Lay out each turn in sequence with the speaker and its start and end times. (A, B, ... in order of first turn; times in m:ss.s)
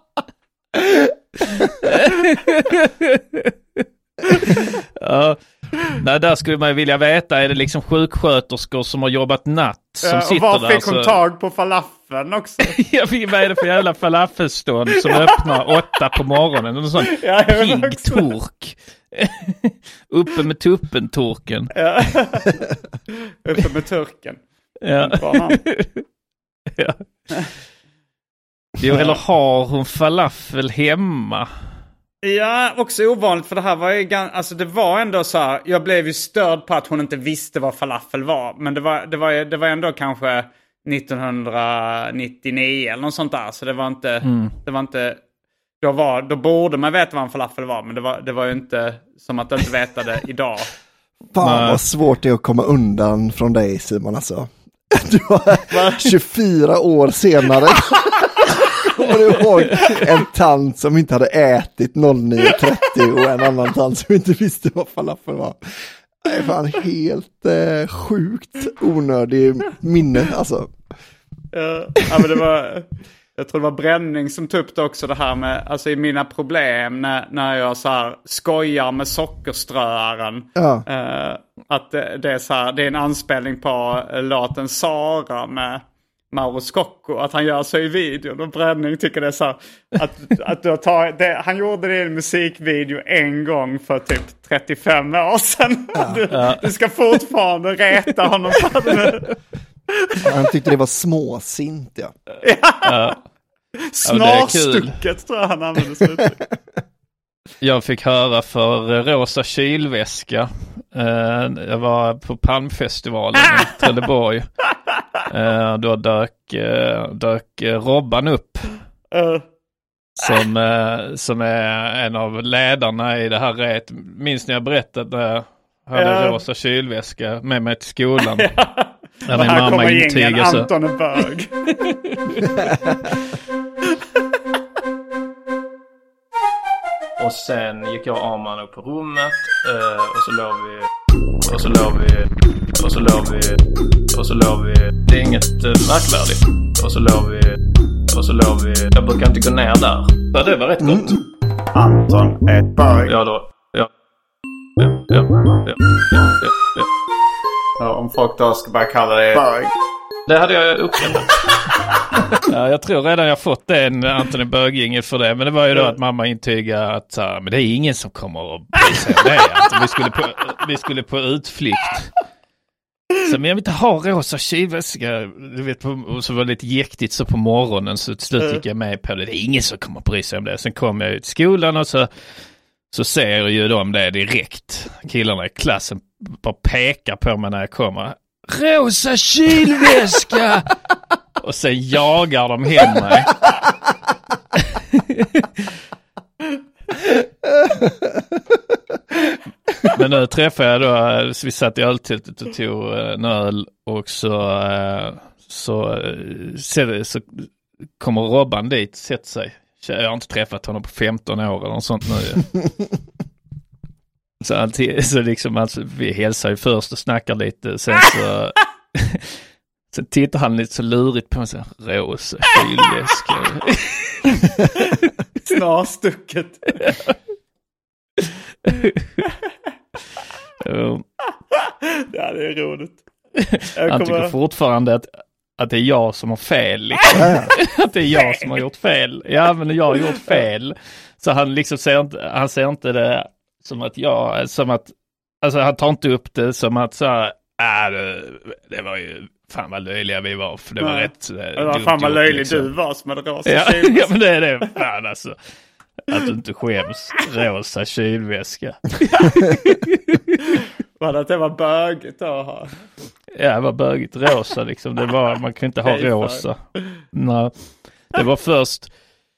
0:01.5-0:11.2 A
0:10.0-0:12.8 B
0:12.6-0:21.7 A
0:15.1-0:15.4 B
0:17.0-0:18.3 B
0:21.8-0:22.6 B
0:23.4-0:24.4 B
0:24.8-0:26.0 A
0:24.9-0:25.6 B
0:28.8-0:31.5 A
0:28.9-0:29.2 B
0:32.2-0:45.2 B
0:44.2-0:44.6 A
0:45.8-0:50.7 B
0:51.3-0:58.2 C
0:51.4-0:51.8 A
0:55.7-0:56.1 B
0:58.9-1:10.7 C
1:11.5-1:39.2 B
1:20.6-1:20.8 C
1:36.3-1:36.7 A
1:40.2-1:42.1 C
1:42.4-1:43.2 B
1:42.8-1:43.2 A
1:43.8-1:46.4 B
1:44.0-1:45.0 A
1:47.6-1:54.7 A
1:55.2-1:58.8 A
1:59.1-1:59.4 B
2:00.2-2:08.5 A
2:06.0-2:06.4 B
2:08.4-2:11.5 B
2:09.3-2:10.7 A
2:11.9-2:12.7 A
2:12.6-2:12.9 C
2:17.2-2:20.9 A
2:21.4-2:23.6 A
2:24.1-2:31.2 A
2:30.8-2:31.1 C
2:31.7-2:33.1 B
2:33.0-2:33.9 A
2:34.8-2:36.9 A
2:37.8-2:39.7 B
2:40.3-2:41.3 A
2:42.4-2:52.1 A
2:53.2-3:02.1 A
3:02.9-3:10.8 A
3:11.4-3:13.4 A
3:14.7-3:15.7 A
3:17.8-3:18.2 C
3:19.9-3:27.5 A
3:28.0-3:32.6 A
3:34.4-3:39.4 A
3:39.9-3:44.6 A
3:45.4-3:46.9 B
3:46.9-3:47.1 A
3:48.7-3:49.3 A
3:50.6-3:51.0 A
3:52.1-3:53.0 B
3:53.4-4:12.7 A
3:53.8-3:54.3 B
3:57.1-3:57.5 C
3:58.2-3:58.5 B
4:10.8-4:14.1 B
4:13.4-4:15.4 A
4:16.0-4:20.4 A
4:21.0-4:22.8 B
4:23.4-4:26.6 A
4:25.8-4:26.5 B
4:27.1-4:28.9 A